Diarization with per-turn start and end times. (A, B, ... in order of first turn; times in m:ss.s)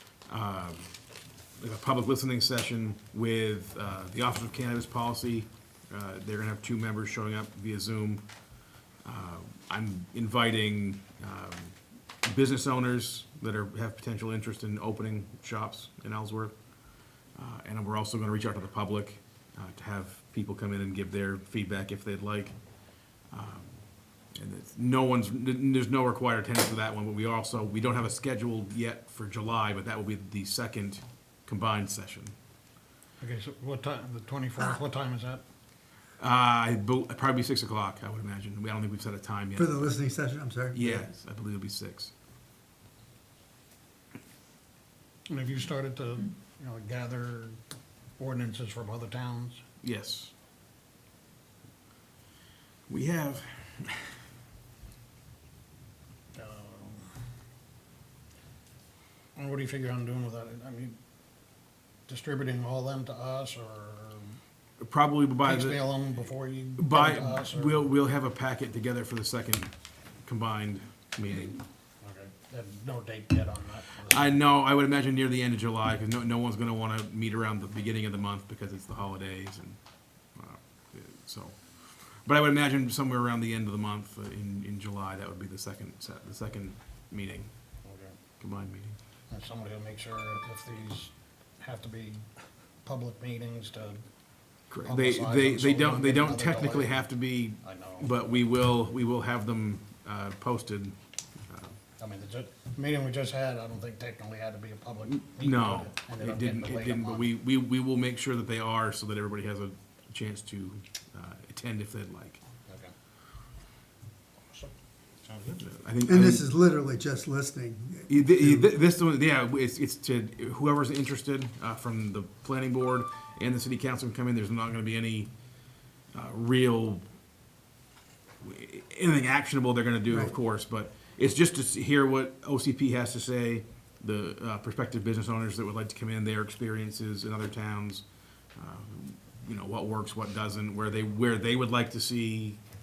0:00.3-0:00.9 A
0:01.6-0:08.2 A
0:09.0-0:16.5 A
0:17.4-0:22.6 A
0:23.3-0:23.8 A
0:24.3-0:32.3 A
0:33.2-0:35.4 B
0:36.2-0:40.0 A
0:39.6-0:41.1 C
0:40.7-0:42.1 A
0:45.3-0:47.6 B
0:48.2-0:49.6 B
0:49.8-0:50.3 A
0:52.9-0:54.1 A
0:56.3-0:57.2 B
0:59.4-1:01.0 B
1:02.1-1:04.4 B
1:04.8-1:05.9 A
1:05.4-1:07.9 B
1:06.8-1:09.7 A
1:10.2-1:11.6 A
1:12.0-1:14.4 B
1:14.1-1:19.8 A
1:20.4-1:27.5 A
1:27.8-1:28.2 B
1:28.4-1:29.0 A
1:29.3-1:32.2 B
1:32.8-1:34.0 B
1:34.7-1:41.0 A
1:34.8-1:37.1 B
1:37.6-1:38.1 B
1:41.5-1:41.8 A
1:42.0-1:47.3 B
1:45.2-1:52.4 A
1:52.7-1:52.9 B
1:54.5-1:55.6 B
1:55.6-1:56.5 A
1:56.1-1:58.7 C
1:58.1-2:05.3 A
2:06.1-2:07.0 A
2:08.4-2:18.0 A
2:10.1-2:10.4 C
2:18.6-2:22.6 A